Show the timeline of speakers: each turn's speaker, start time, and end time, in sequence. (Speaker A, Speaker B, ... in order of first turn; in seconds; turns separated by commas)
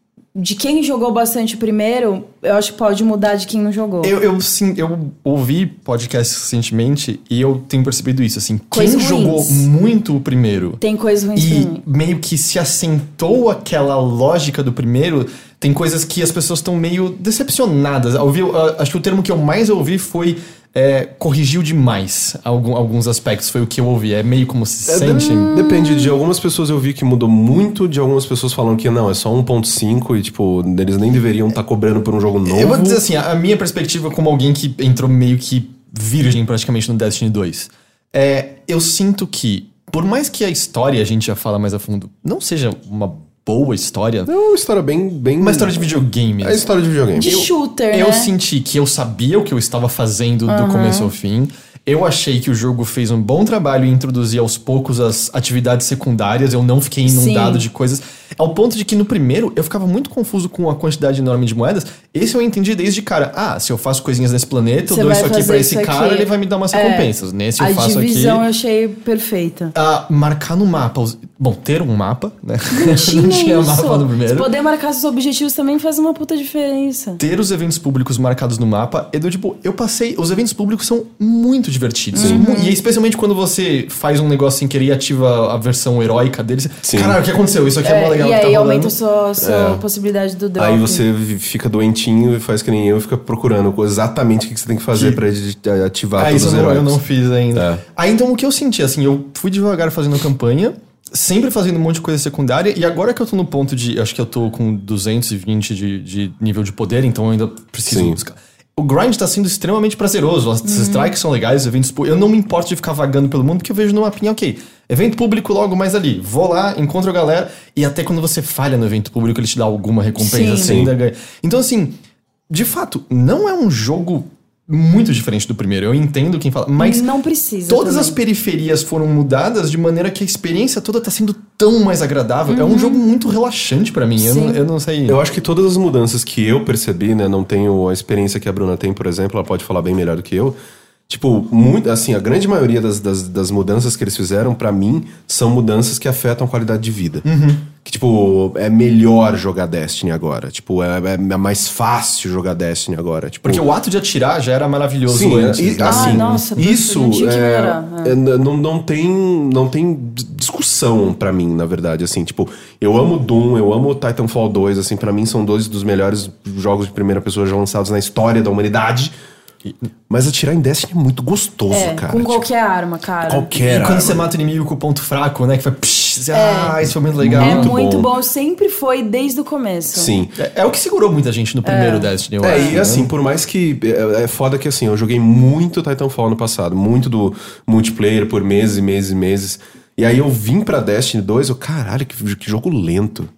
Speaker A: 0.3-4.1, Speaker B: 4.0-10.8, Speaker A: 8.7-9.7, Speaker A: 10.8-11.8, Speaker B: 11.4-25.6, Speaker C: 24.9-33.0, Speaker A: 25.4-26.1, Speaker B: 32.5-44.3, Speaker C: 44.3-45.8, Speaker B: 45.4-46.7, Speaker C: 46.4-47.3, Speaker A: 47.2-48.3, Speaker B: 47.2-68.5, Speaker A: 50.5-51.1, Speaker A: 57.1-57.7, Speaker A: 64.9-69.7, Speaker B: 69.8-74.5, Speaker A: 72.7-77.2, Speaker B: 77.2-88.9, Speaker A: 82.1-82.8, Speaker C: 82.2-82.4, Speaker C: 86.8-87.2, Speaker A: 87.8-91.0, Speaker C: 89.4-89.8, Speaker C: 90.6-97.0, Speaker B: 94.9-95.2, Speaker B: 96.2-122.0, Speaker C: 97.5-97.8, Speaker C: 107.9-108.2, Speaker A: 110.6-111.2, Speaker A: 120.2-120.8, Speaker C: 120.6-120.9, Speaker B: 122.5-127.1, Speaker A: 126.8-128.2, Speaker B: 127.7-135.2, Speaker A: 132.5-133.0, Speaker A: 134.2-134.6, Speaker C: 135.1-140.6, Speaker C: 141.1-147.2, Speaker B: 147.2-147.7, Speaker C: 147.8-153.6, Speaker B: 153.4-156.5, Speaker C: 155.1-169.1, Speaker A: 155.9-158.2, Speaker C: 170.1-172.5, Speaker A: 171.7-173.5, Speaker C: 173.3-174.3, Speaker B: 173.7-177.7, Speaker A: 176.3-176.8, Speaker C: 177.2-178.1, Speaker A: 177.4-180.1, Speaker C: 179.9-180.4, Speaker B: 180.4-183.1, Speaker A: 181.6-182.8, Speaker C: 182.4-193.3